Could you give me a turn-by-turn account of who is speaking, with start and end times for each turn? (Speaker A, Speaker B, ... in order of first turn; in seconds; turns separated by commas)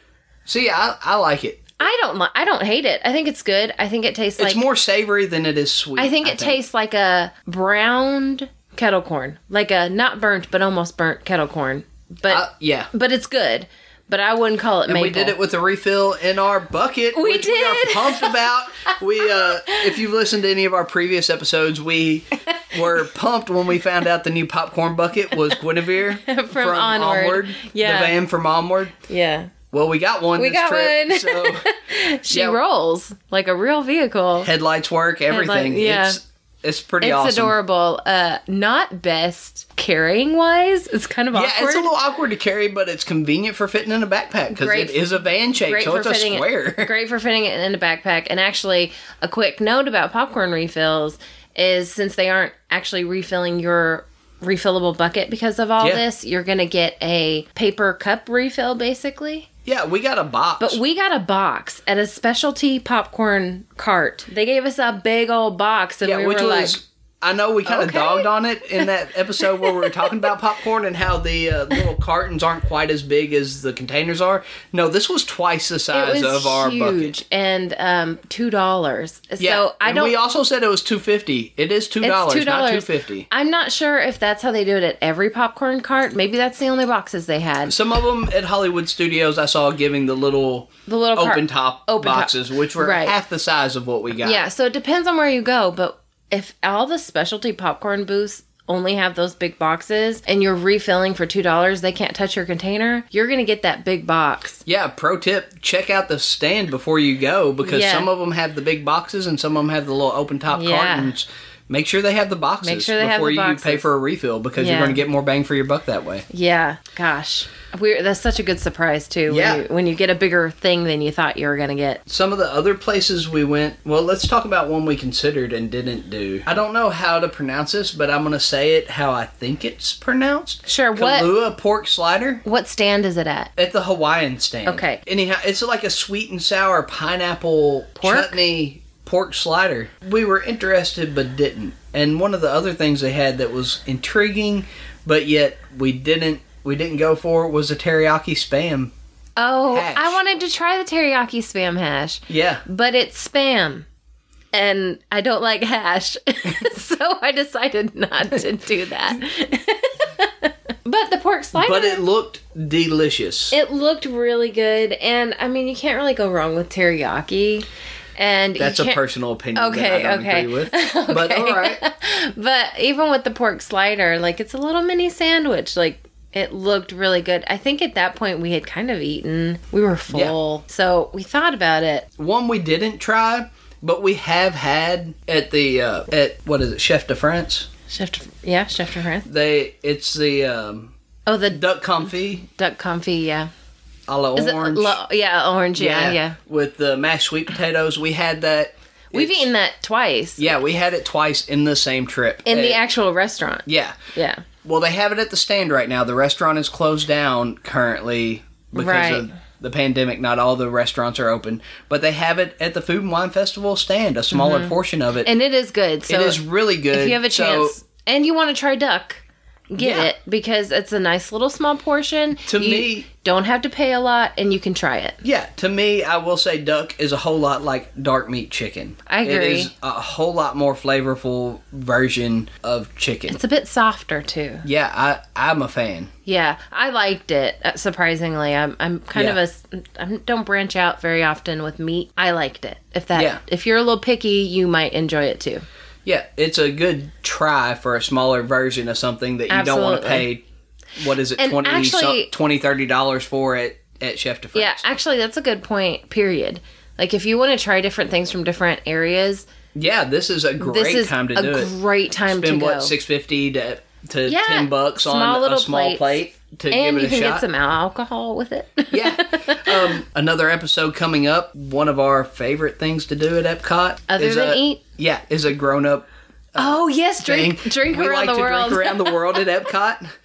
Speaker A: 0.5-1.7, Speaker B: 1.8-4.6, Speaker A: 4.4-6.6, Speaker B: 6.0-15.3, Speaker A: 12.3-12.9, Speaker A: 14.9-29.0, Speaker B: 17.1-19.9, Speaker B: 26.2-28.1, Speaker B: 29.1-29.5, Speaker A: 29.7-31.6, Speaker B: 30.4-34.5, Speaker A: 32.3-32.6, Speaker A: 34.4-37.5, Speaker B: 35.3-36.2, Speaker B: 37.0-41.9, Speaker A: 41.3-46.9, Speaker B: 44.5-45.1, Speaker B: 45.6-59.5, Speaker A: 59.6-60.8, Speaker B: 60.6-66.8, Speaker A: 66.0-77.2, Speaker B: 67.6-68.9, Speaker B: 69.4-70.3, Speaker B: 75.9-80.1, Speaker A: 79.4-83.3, Speaker B: 82.0-87.8, Speaker A: 87.7-94.4, Speaker B: 90.9-93.1, Speaker B: 94.2-104.6, Speaker A: 104.7-116.2, Speaker B: 107.6-108.1, Speaker B: 110.5-111.1, Speaker B: 112.6-113.9, Speaker B: 114.6-115.0, Speaker B: 116.3-122.0, Speaker A: 119.3-119.6, Speaker A: 122.1-132.4, Speaker B: 130.7-131.3, Speaker B: 132.4-133.5, Speaker A: 133.6-148.9, Speaker B: 134.7-135.0, Speaker B: 138.0-138.4, Speaker B: 149.4-153.8, Speaker A: 149.7-150.2, Speaker A: 152.3-152.6, Speaker B: 154.5-162.0, Speaker A: 161.5-163.5, Speaker B: 163.5-167.7, Speaker B: 168.2-169.0, Speaker A: 168.6-171.8, Speaker B: 169.5-182.1, Speaker A: 182.2-187.7, Speaker B: 187.9-189.3, Speaker A: 189.2-190.9, Speaker B: 191.2-191.6, Speaker A: 191.5-192.4, Speaker B: 192.4-193.5, Speaker A: 194.1-195.0, Speaker B: 194.3-196.3, Speaker A: 195.8-199.5, Speaker B: 199.1-200.5, Speaker A: 200.4-202.8, Speaker B: 202.4-204.4, Speaker A: 203.7-204.0, Speaker A: 204.6-215.3, Speaker B: 208.7-209.3, Speaker B: 214.3-225.2, Speaker A: 216.1-217.8, Speaker A: 219.8-220.1, Speaker A: 222.5-223.1, Speaker A: 225.2-233.4, Speaker B: 229.1-229.7, Speaker B: 233.3-234.7, Speaker A: 234.6-236.1, Speaker B: 236.2-245.6, Speaker A: 243.1-243.4, Speaker A: 246.0-250.4, Speaker B: 249.5-250.3, Speaker A: 251.0-254.8, Speaker B: 251.4-252.3, Speaker B: 254.5-259.4, Speaker A: 259.7-261.7, Speaker B: 260.6-262.9, Speaker A: 262.3-267.4, Speaker B: 264.3-270.0, Speaker A: 268.9-280.0, Speaker B: 274.1-274.8, Speaker B: 276.6-279.4